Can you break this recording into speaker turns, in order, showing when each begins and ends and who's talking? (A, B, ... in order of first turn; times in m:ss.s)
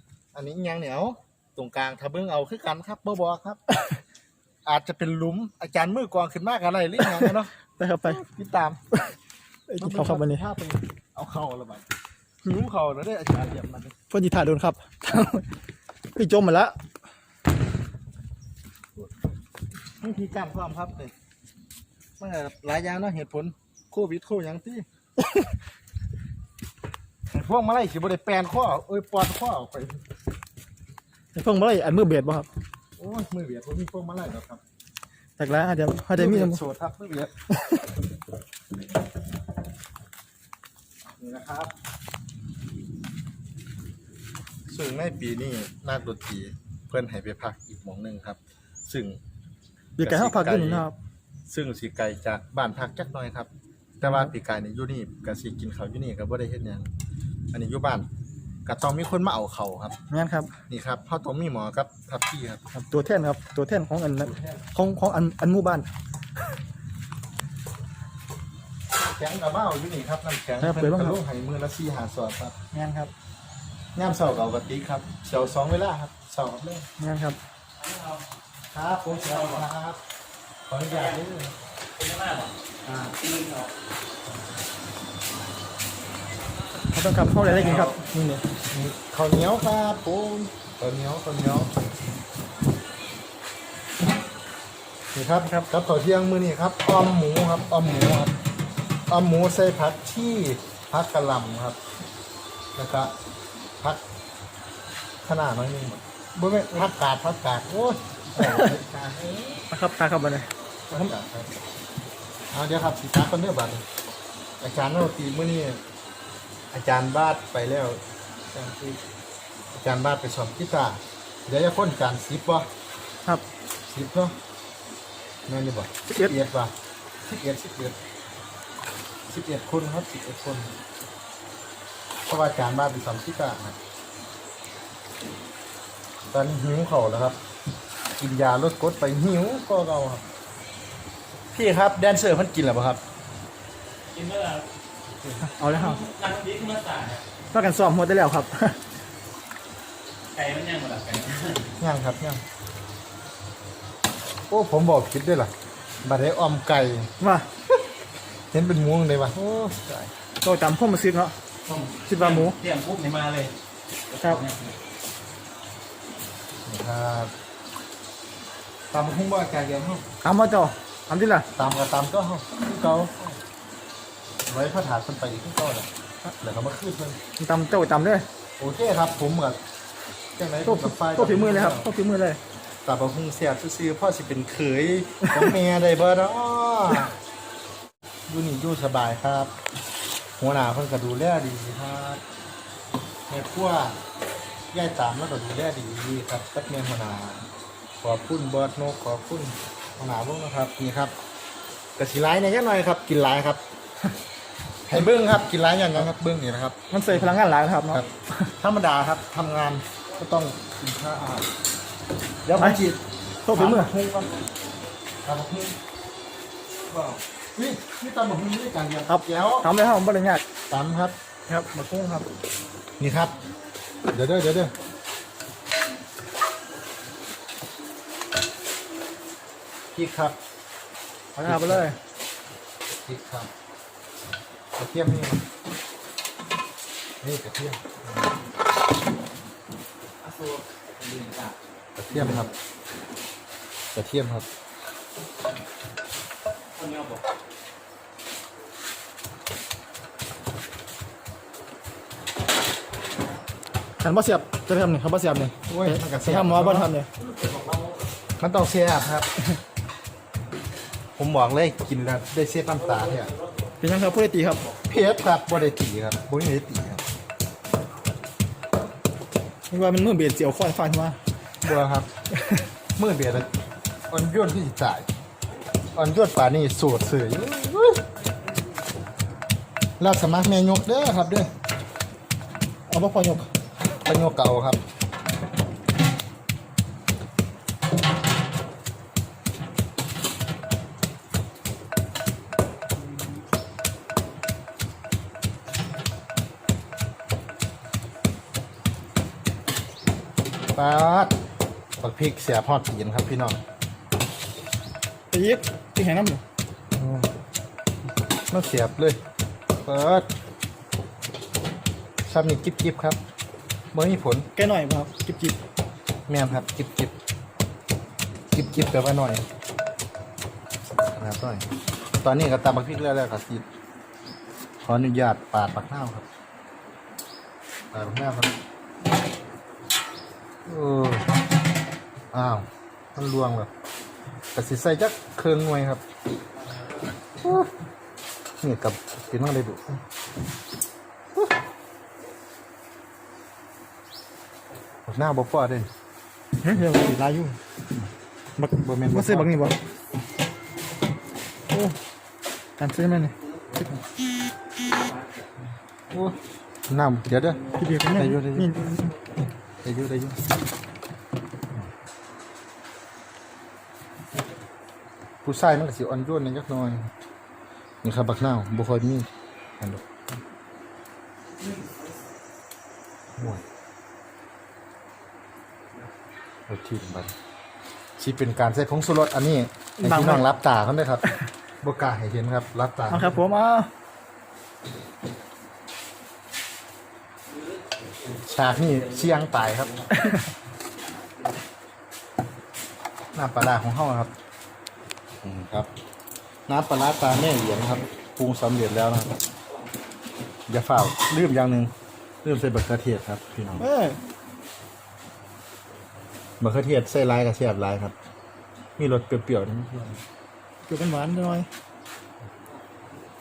0:00.3-0:03.6 A
0:04.6-0:07.5 A
0:07.1-0:08.2 B
0:08.0-0:09.0 A
0:09.7-0:10.4 B
0:09.8-0:11.9 A
0:12.4-0:13.9 A
0:14.1-0:15.4 B
0:16.1-0:16.7 B
0:20.0-0:21.1 A
0:22.2-0:24.9 A
0:25.2-0:25.5 B
0:27.3-0:30.0 A
0:31.3-0:32.5 B
0:33.0-0:34.6 A
0:35.4-0:36.6 B
0:36.1-0:37.3 A
0:37.5-0:37.8 B
0:41.2-0:41.7 A
0:44.7-0:49.2 A
0:50.0-0:51.0 B
0:50.0-0:50.9 A
0:51.5-0:53.5 A
0:54.0-0:56.9 A
0:57.5-0:58.1 A
0:58.6-1:00.0 A
1:00.1-1:00.5 B
1:00.7-1:02.6 A
1:02.7-1:05.9 B
1:04.2-1:04.6 A
1:08.9-1:12.5 A
1:10.6-1:11.2 B
1:12.7-1:13.1 B
1:13.9-1:16.8 A
1:17.0-1:17.4 B
1:17.8-1:18.2 C
1:18.7-1:20.0 A
1:19.2-1:19.6 C
1:20.7-1:21.5 A
1:22.0-1:22.5 C
1:22.8-1:23.1 A
1:23.2-1:23.7 C
1:26.9-1:28.4 B
1:27.6-1:27.9 C
1:28.7-1:31.7 A
1:35.1-1:38.3 A
1:39.1-1:41.8 A
1:42.8-1:43.1 A
1:45.2-1:49.6 A
1:48.4-1:48.7 B
1:49.7-1:51.1 B
1:50.9-1:51.5 A
1:52.5-1:53.8 A
1:54.6-1:55.8 A
1:56.7-1:59.0 A
1:59.7-2:02.7 A
2:03.8-2:04.4 A
2:05.5-2:06.7 A
2:07.2-2:08.0 A
2:09.3-2:10.8 A
2:12.3-2:13.8 A
2:16.3-2:17.4 A
2:18.2-2:20.2 A
2:21.5-2:23.0 A
2:24.1-2:24.6 C
2:25.4-2:26.0 B
2:25.7-2:27.2 C
2:27.5-2:28.8 B
2:30.3-2:31.7 C
2:31.8-2:32.4 A
2:34.5-2:35.5 A
2:36.0-2:37.1 A
2:37.2-2:37.5 B
2:38.5-2:40.1 A
2:40.4-2:41.3 B
2:41.7-2:43.5 C
2:42.0-2:42.6 B
2:44.1-2:44.7 C
2:46.6-2:47.3 A
2:48.9-2:50.0 A
2:50.2-2:51.5 B
2:51.6-2:53.4 A
2:54.5-2:55.9 A
2:56.4-2:57.2 A
2:57.4-2:58.2 B
2:58.6-2:59.6 A
3:00.4-3:01.9 A
3:00.7-3:02.4 B
3:02.8-3:07.1 A
3:08.3-3:09.5 A
3:10.4-3:12.2 A
3:13.3-3:14.0 A
3:14.7-3:17.5 A
3:18.0-3:21.1 A
3:22.0-3:23.6 A
3:24.9-3:27.4 A
3:26.9-3:28.5 B
3:27.9-3:31.5 A
3:32.4-3:33.0 A
3:33.4-3:33.9 B
3:33.5-3:34.3 A
3:35.2-3:35.8 A
3:36.8-3:39.7 A
3:39.1-3:40.4 B
3:40.7-3:41.2 A
3:41.5-3:42.3 B
3:43.0-3:43.4 A
3:44.1-3:44.7 A
3:49.9-3:50.4 A
3:51.4-3:52.0 B
3:51.4-3:51.8 A
3:53.0-3:53.5 A
3:54.8-3:55.4 A
3:57.2-3:58.3 A
4:00.2-4:01.5 C
4:02.0-4:02.5 A
4:03.9-4:04.5 A
4:06.8-4:07.2 C
4:14.0-4:17.1 B
4:15.7-4:16.9 A
4:17.4-4:17.8 C
4:18.4-4:19.3 A
4:21.2-4:23.3 A
4:23.8-4:24.6 B
4:24.8-4:27.0 A
4:29.7-4:31.2 B
4:31.6-4:32.1 A
4:33.0-4:33.5 A
4:34.1-4:35.1 A
4:35.9-4:38.0 A
4:40.0-4:41.5 A
4:42.9-4:43.5 B
4:44.0-4:44.8 A
5:00.7-5:01.4 A
5:02.0-5:03.6 A
5:05.3-5:06.4 B
5:08.5-5:09.2 A
5:09.8-5:10.3 A
5:12.2-5:13.2 A
5:13.9-5:14.5 A
5:14.5-5:15.6 B
5:16.3-5:17.2 A
5:18.5-5:19.4 A
5:21.1-5:21.7 A
5:22.2-5:23.6 A
5:24.8-5:26.2 A
5:27.9-5:28.6 A
5:30.6-5:31.3 A
5:32.3-5:33.7 A
5:34.5-5:36.0 A
5:37.4-5:37.7 A
5:38.6-5:40.0 A
5:45.1-5:45.9 A
5:46.6-5:47.6 B
5:48.6-5:49.8 B
5:48.7-5:49.5 A
5:51.7-5:52.0 B
5:52.8-5:53.3 B
5:56.1-5:58.7 A
5:57.8-5:59.1 B
5:59.8-6:00.4 A
6:05.4-6:07.1 A
6:08.0-6:09.3 A
6:13.4-6:13.6 A
6:16.7-6:17.3 A
6:18.2-6:21.3 A
6:20.0-6:20.5 B
6:21.8-6:23.4 A
6:23.1-6:23.9 B
6:28.4-6:29.9 A
6:30.1-6:30.5 B
6:33.3-6:34.3 A
6:35.4-6:35.9 A
6:36.7-6:39.4 A
6:40.7-6:41.9 A
6:42.4-6:43.8 A
6:43.8-6:44.2 B
6:46.6-6:48.1 A
6:49.0-6:50.2 A
6:50.8-6:51.7 B